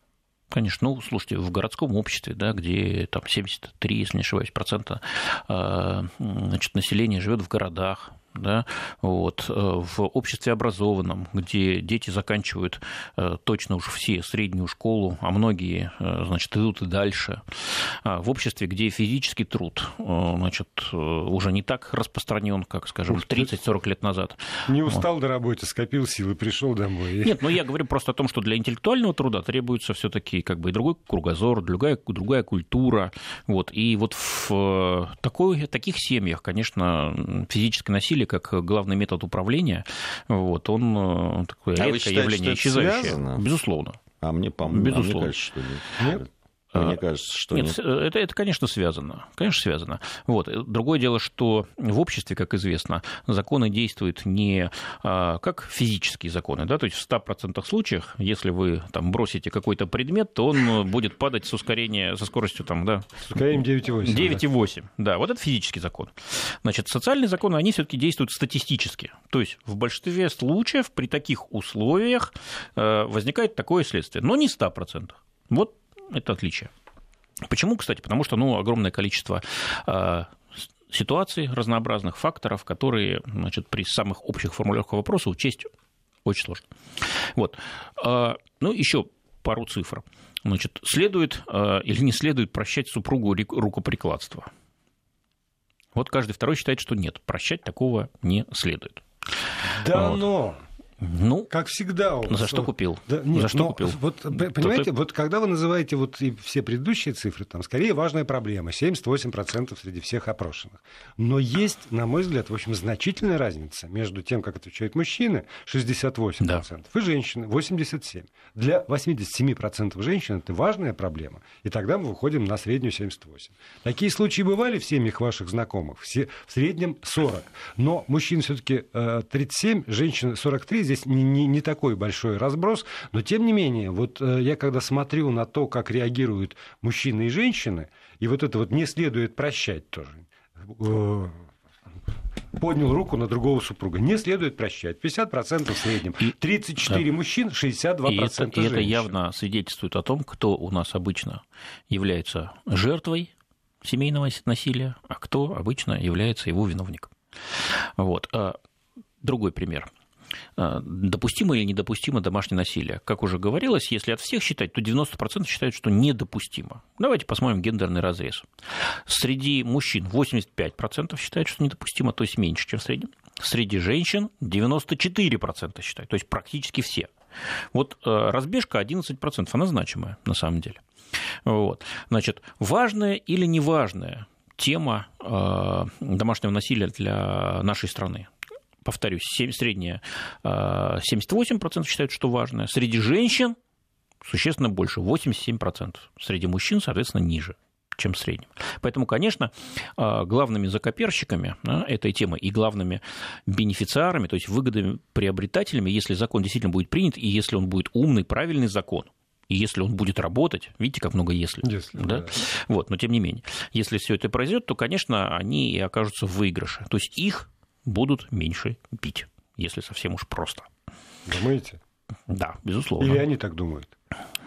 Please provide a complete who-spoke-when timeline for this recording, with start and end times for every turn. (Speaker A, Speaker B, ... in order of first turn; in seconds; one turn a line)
Speaker A: 0.5-25.0
Speaker B: 23.1-23.5
Speaker B: 24.7-27.4
Speaker A: 27.2-44.0
Speaker C: 41.8-43.4
Speaker C: 44.2-47.8
Speaker A: 44.7-45.3
Speaker B: 46.0-46.2
Speaker A: 46.7-47.0
Speaker A: 47.5-63.2
Speaker B: 63.2-64.4
Speaker A: 64.0-76.7
Speaker A: 77.4-85.7
Speaker A: 86.2-94.5
Speaker A: 95.9-99.0
Speaker B: 99.7-100.6
Speaker A: 99.9-100.2
Speaker A: 101.0-101.5
Speaker B: 101.5-141.5
Speaker A: 102.3-104.9
Speaker B: 142.5-149.1
Speaker A: 148.1-153.3
Speaker A: 153.8-158.6
Speaker A: 159.2-159.9
Speaker A: 160.6-177.1
Speaker A: 177.7-180.8
Speaker A: 181.4-188.3
Speaker A: 188.8-193.6
Speaker A: 194.2-220.7
Speaker B: 211.6-212.4
Speaker B: 221.2-221.8
Speaker A: 222.3-223.2
Speaker B: 223.0-223.9